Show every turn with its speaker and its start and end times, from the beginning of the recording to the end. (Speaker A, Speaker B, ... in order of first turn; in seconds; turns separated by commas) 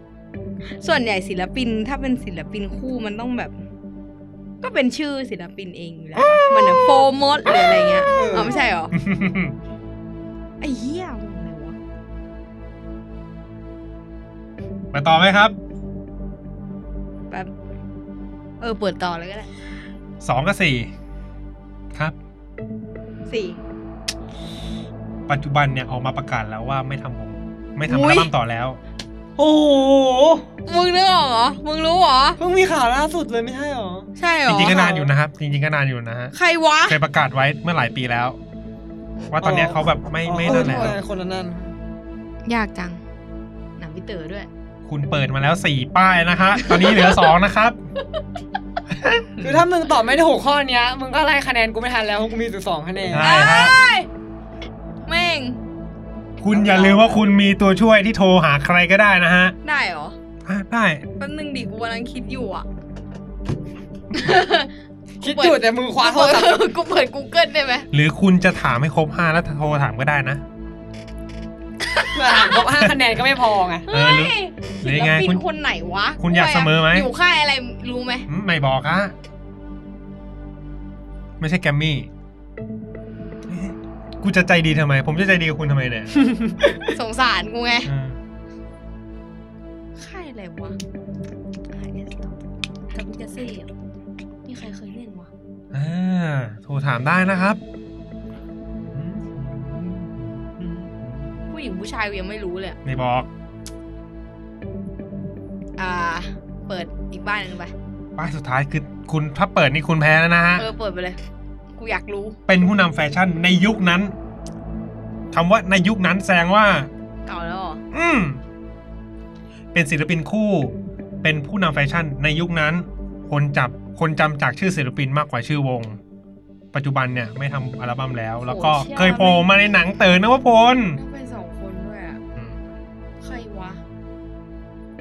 Speaker A: 0.8-3.5, Speaker A: 4.6-8.9, Speaker B: 6.2-6.9, Speaker C: 8.1-8.6, Speaker B: 8.9-9.6, Speaker A: 10.6-11.8, Speaker B: 14.9-15.6, Speaker A: 18.6-19.5, Speaker B: 20.2-20.9, Speaker A: 23.3-23.6, Speaker B: 25.3-28.8, Speaker A: 27.9-28.3, Speaker C: 29.4-30.5, Speaker A: 30.7-32.4, Speaker C: 32.4-34.1, Speaker A: 34.2-35.1, Speaker B: 34.5-36.3, Speaker A: 36.3-37.0, Speaker B: 36.9-38.4, Speaker B: 39.3-41.0, Speaker C: 39.4-41.7, Speaker A: 40.5-41.0, Speaker A: 42.5-43.0, Speaker A: 43.8-44.5, Speaker B: 44.9-47.8, Speaker A: 46.6-47.3, Speaker B: 49.0-49.3, Speaker C: 49.4-53.3, Speaker B: 53.1-53.8, Speaker A: 53.2-54.1, Speaker A: 55.1-55.6, Speaker B: 56.4-59.6, Speaker C: 56.5-57.2, Speaker A: 59.6-60.2, Speaker B: 60.5-61.1, Speaker A: 61.2-62.7, Speaker A: 64.1-64.7, Speaker C: 65.2-66.7, Speaker A: 65.2-67.9, Speaker B: 67.9-70.4, Speaker A: 71.9-72.6, Speaker C: 72.1-73.9, Speaker A: 73.9-78.3, Speaker B: 73.9-75.4, Speaker B: 76.2-77.1, Speaker B: 78.3-79.2, Speaker B: 81.4-82.1, Speaker B: 83.5-86.1, Speaker C: 86.2-86.9, Speaker A: 86.9-87.9, Speaker B: 87.8-88.2, Speaker A: 90.0-90.8, Speaker A: 91.7-92.3, Speaker A: 92.9-93.7, Speaker A: 94.5-95.3, Speaker B: 95.7-97.6, Speaker B: 99.0-100.1, Speaker C: 99.1-99.6, Speaker C: 100.6-101.3, Speaker A: 101.5-102.8, Speaker B: 102.8-103.3, Speaker A: 105.8-107.7, Speaker B: 108.2-110.7, Speaker A: 110.6-111.2, Speaker A: 111.8-112.4, Speaker B: 112.5-114.1, Speaker B: 115.3-116.9, Speaker A: 117.3-117.8, Speaker B: 117.9-118.4, Speaker B: 119.7-126.0, Speaker B: 126.7-131.0, Speaker A: 128.4-129.5, Speaker A: 131.0-132.2, Speaker A: 133.2-133.8